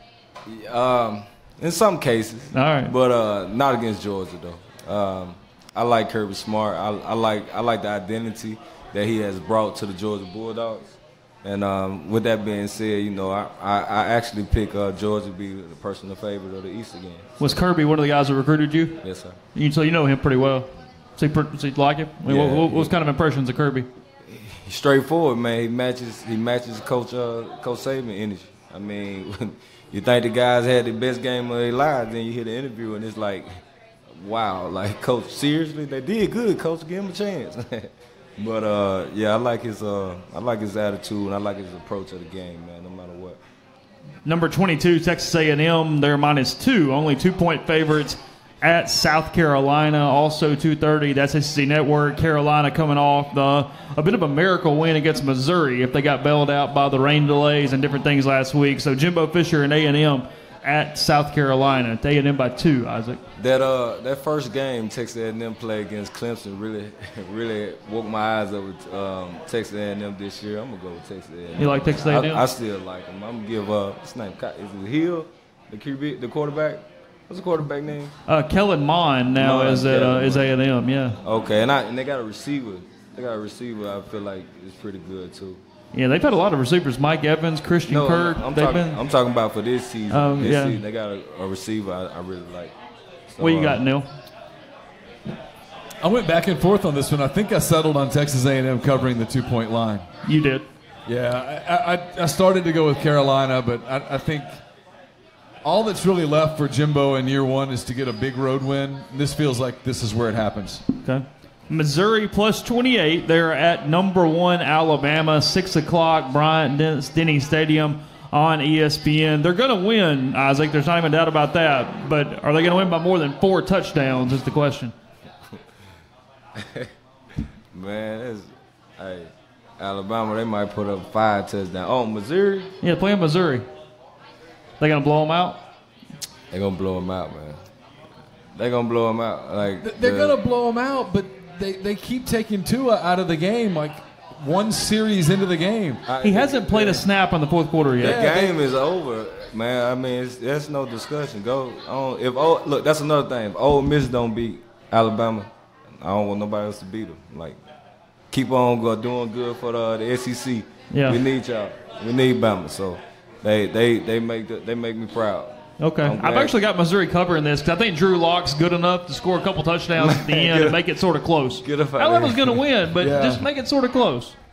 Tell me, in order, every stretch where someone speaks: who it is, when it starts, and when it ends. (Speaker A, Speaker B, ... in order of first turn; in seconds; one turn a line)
Speaker A: 0.5-17.6
Speaker B: 2.5-2.9
Speaker B: 17.4-19.0
Speaker A: 19.0-19.4
Speaker B: 19.5-23.9
Speaker A: 22.2-22.9
Speaker A: 24.2-43.4
Speaker B: 44.2-63.2
Speaker A: 63.4-78.2
Speaker B: 71.6-72.4
Speaker B: 78.3-81.2
Speaker A: 79.3-80.5
Speaker A: 81.2-85.6
Speaker B: 85.9-89.0
Speaker A: 87.9-92.7
Speaker B: 90.1-90.8
Speaker A: 93.3-93.8
Speaker B: 93.4-94.1
Speaker C: 96.0-100.1
Speaker B: 100.2-100.7
Speaker C: 101.0-104.6
Speaker C: 105.6-110.8
Speaker B: 111.0-124.9
Speaker A: 126.5-132.7
Speaker B: 132.8-133.7
Speaker B: 134.8-135.6
Speaker A: 136.5-137.6
Speaker A: 138.5-140.4
Speaker C: 139.8-146.0
Speaker A: 146.1-147.0
Speaker B: 146.2-148.2
Speaker A: 148.0-157.6
Speaker C: 148.0-148.6
Speaker A: 158.3-166.5
Speaker B: 160.9-161.2
Speaker B: 165.8-174.3
Speaker A: 169.9-170.8
Speaker A: 171.6-172.6
Speaker C: 173.0-173.4